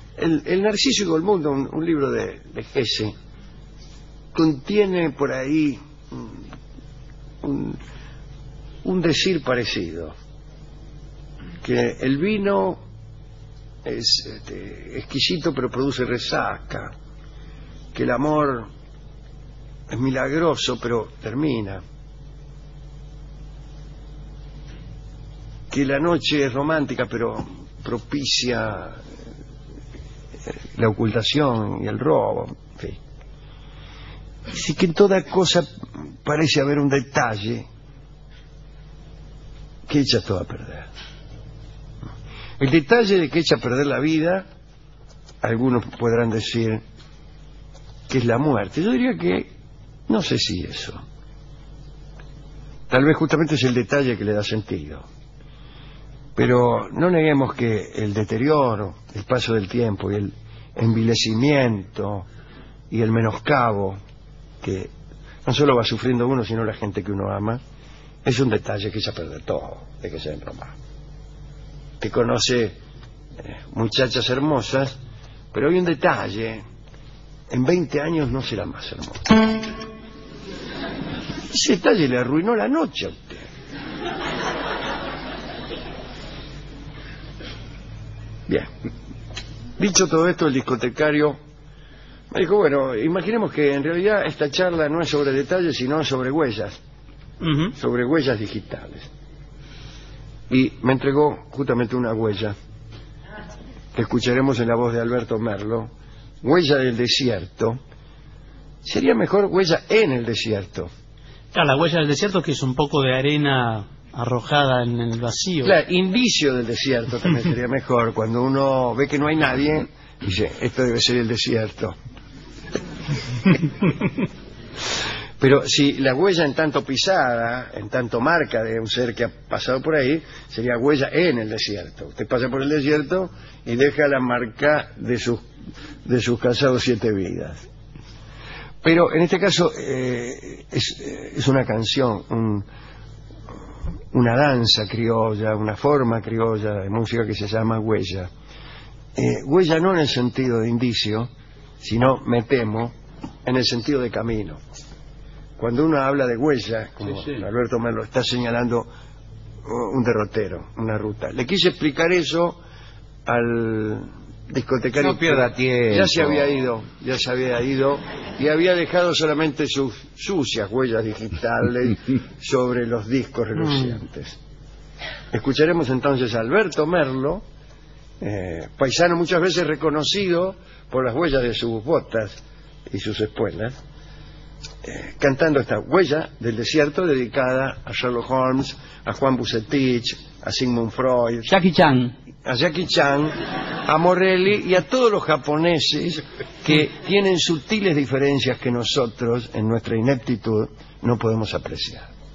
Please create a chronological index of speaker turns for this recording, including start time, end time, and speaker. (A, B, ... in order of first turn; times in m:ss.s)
0:00.2-0:03.1 A
0:04.3-0:06.4 A
0:07.4-0:07.8 A
0:08.8-0:10.1 A
0:11.6-0:12.8 A
0:13.8-0:16.9 A
0:17.9-0:18.7 A
0:19.9-0:21.8 A
0:25.7-0:29.0 A
0:30.5-0:33.0 A
0:34.5-0:35.7 A
0:36.2-0:37.7 A
0:39.9-0:40.9 A
0:42.6-0:44.4 A
0:45.4-0:46.8 A
0:48.1-0:49.5 A
0:50.1-0:51.0 A
0:52.9-0:55.0 A
0:56.4-1:02.3 A
1:02.9-1:04.0 A
1:04.6-1:04.9 A
1:05.4-1:07.6 A
1:08.2-1:10.8 A
1:12.0-1:12.8 A
1:13.4-1:15.0 A
1:15.5-1:16.6 A
1:17.5-1:19.4 A
1:21.4-1:23.5 A
1:29.8-1:31.4 A
1:32.3-1:36.8 A
1:37.7-1:39.1 A
1:40.5-1:42.5 A
1:43.9-1:45.9 A
1:46.4-1:47.8 A
1:48.8-1:50.9 A
1:51.5-1:55.7 B
1:55.6-2:02.0 A
2:05.4-2:15.4 A
2:16.0-2:17.6 A
2:18.8-2:22.6 A
2:24.1-2:28.3 A
2:29.1-2:32.9 A
2:33.4-2:34.6 A
2:35.6-2:38.9 A
2:37.1-2:37.4 C
2:39.6-2:42.6 A
2:43.2-2:54.4 A
2:45.0-2:46.4 C
2:55.3-2:57.4 A
2:58.2-3:03.8 A
3:04.8-3:11.5 A
3:11.5-3:12.1 C
3:12.4-3:22.1 A